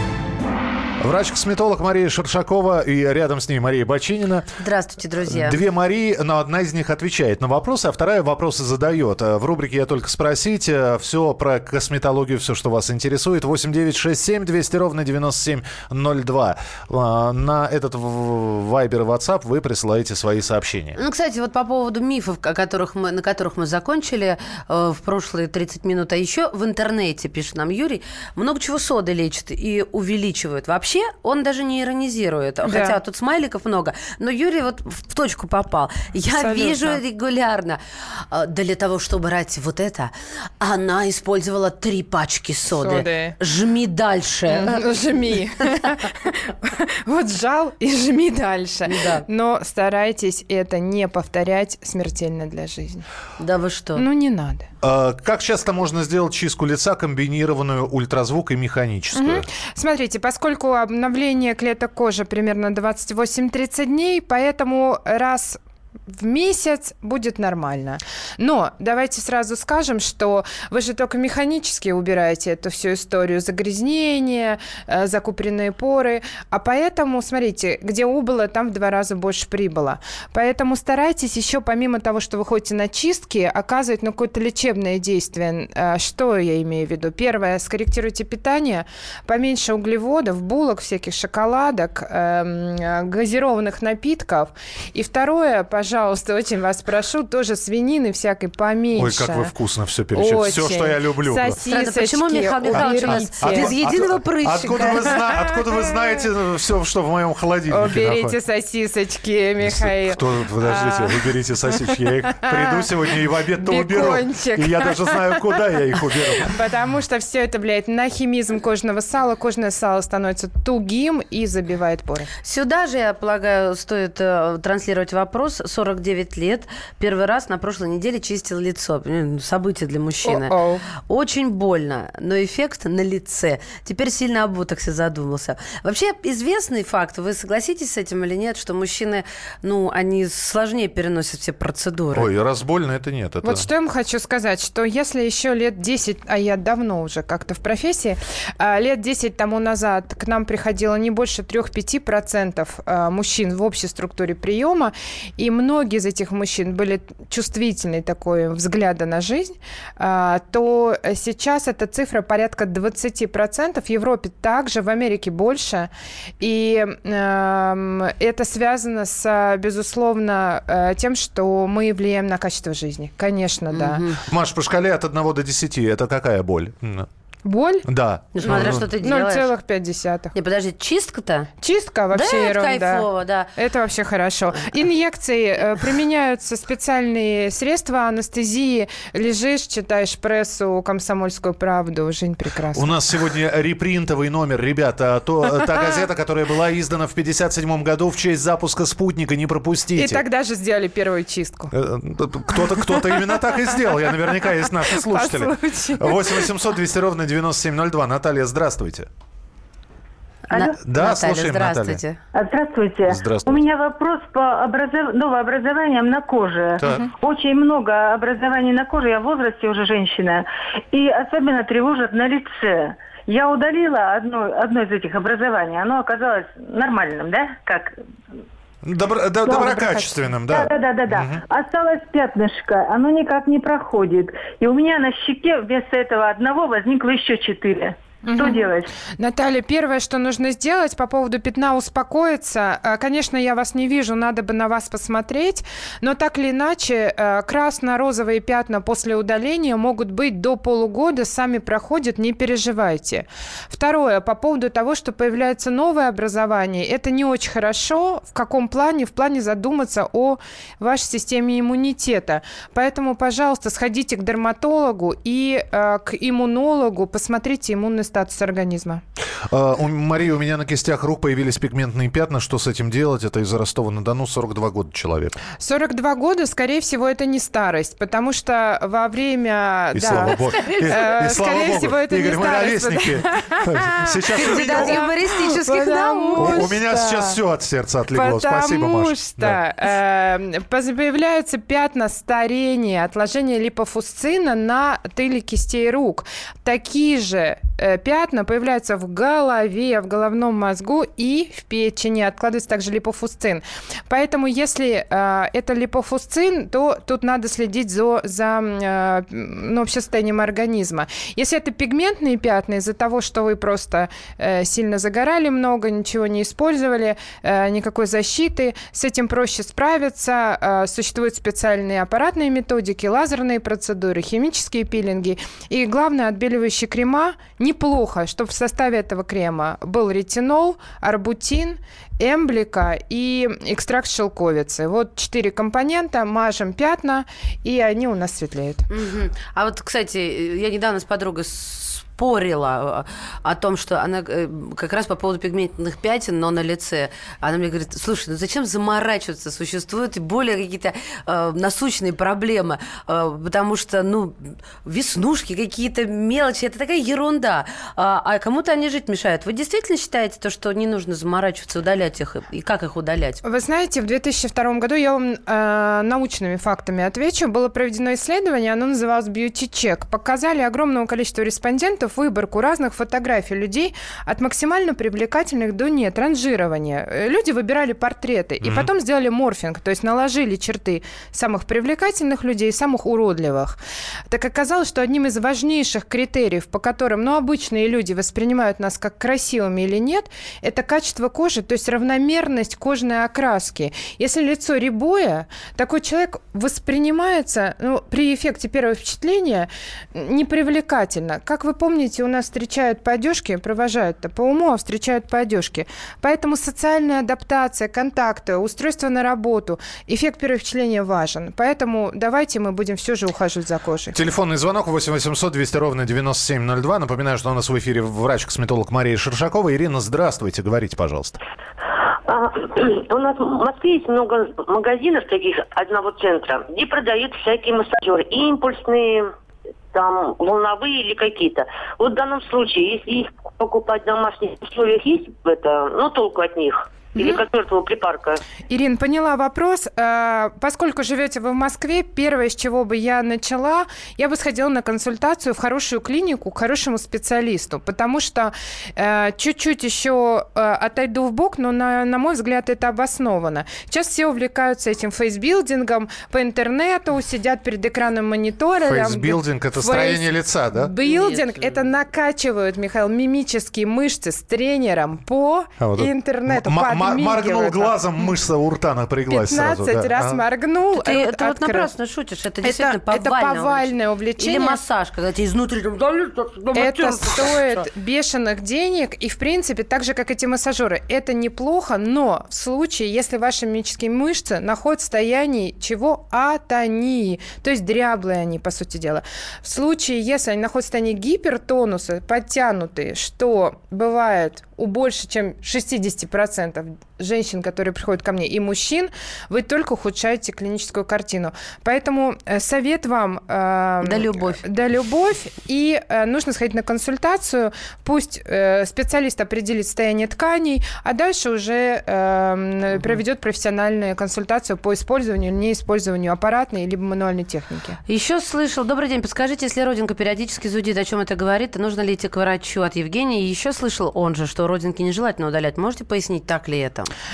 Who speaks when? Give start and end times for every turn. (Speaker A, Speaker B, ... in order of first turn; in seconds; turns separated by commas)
Speaker A: 1.0-4.5, Speaker B: 4.6-5.6, Speaker A: 5.2-21.0, Speaker B: 21.0-44.8, Speaker C: 32.6-33.0, Speaker C: 36.3-37.0, Speaker C: 42.7-43.4, Speaker C: 44.5-53.0, Speaker B: 48.9-49.2, Speaker B: 53.4-54.0, Speaker C: 54.0-54.7, Speaker A: 54.8-59.5, Speaker C: 59.1-99.5, Speaker A: 98.9-101.6, Speaker C: 100.1-103.7, Speaker B: 101.7-105.1, Speaker A: 102.7-108.3, Speaker C: 104.8-105.9, Speaker C: 107.7-111.7, Speaker A: 109.6-116.5, Speaker C: 112.3-112.9, Speaker C: 113.6-115.6, Speaker C: 116.4-122.3, Speaker B: 122.4-130.5, Speaker C: 130.2-130.8, Speaker B: 131.1-142.3, Speaker A: 142.1-143.7, Speaker C: 143.4-174.0, Speaker B: 173.7-174.2, Speaker A: 174.3-177.1, Speaker C: 177.4-177.8, Speaker A: 177.8-178.9, Speaker B: 178.3-179.5, Speaker C: 178.4-180.3, Speaker B: 180.3-181.5, Speaker C: 181.6-192.9, Speaker B: 182.1-183.5, Speaker A: 192.7-200.2, Speaker C: 199.9-201.7, Speaker A: 201.7-209.1, Speaker C: 202.8-206.5, Speaker B: 210.5-212.2, Speaker A: 210.8-212.0, Speaker D: 212.3-227.9, Speaker A: 213.1-213.7, Speaker A: 216.8-217.1, Speaker A: 228.8-231.4, Speaker D: 229.4-229.9, Speaker D: 230.5-238.9, Speaker C: 238.2-269.0, Speaker A: 269.5-275.4, Speaker C: 275.6-287.4, Speaker A: 279.9-285.1, Speaker B: 284.4-286.7, Speaker A: 286.3-289.6, Speaker C: 288.1-338.9, Speaker B: 338.9-363.4, Speaker C: 363.4-383.8, Speaker A: 378.6-378.9, Speaker C: 384.3-414.2, Speaker A: 414.1-421.4, Speaker E: 422.3-429.3, Speaker E: 429.9-438.4, Speaker C: 438.7-468.3, Speaker A: 458.8-460.9, Speaker B: 461.0-461.8, Speaker A: 465.8-470.4, Speaker C: 469.3-471.9, Speaker B: 470.9-477.9, Speaker C: 472.6-474.8, Speaker C: 476.7-518.0, Speaker B: 504.0-504.6, Speaker B: 518.1-527.1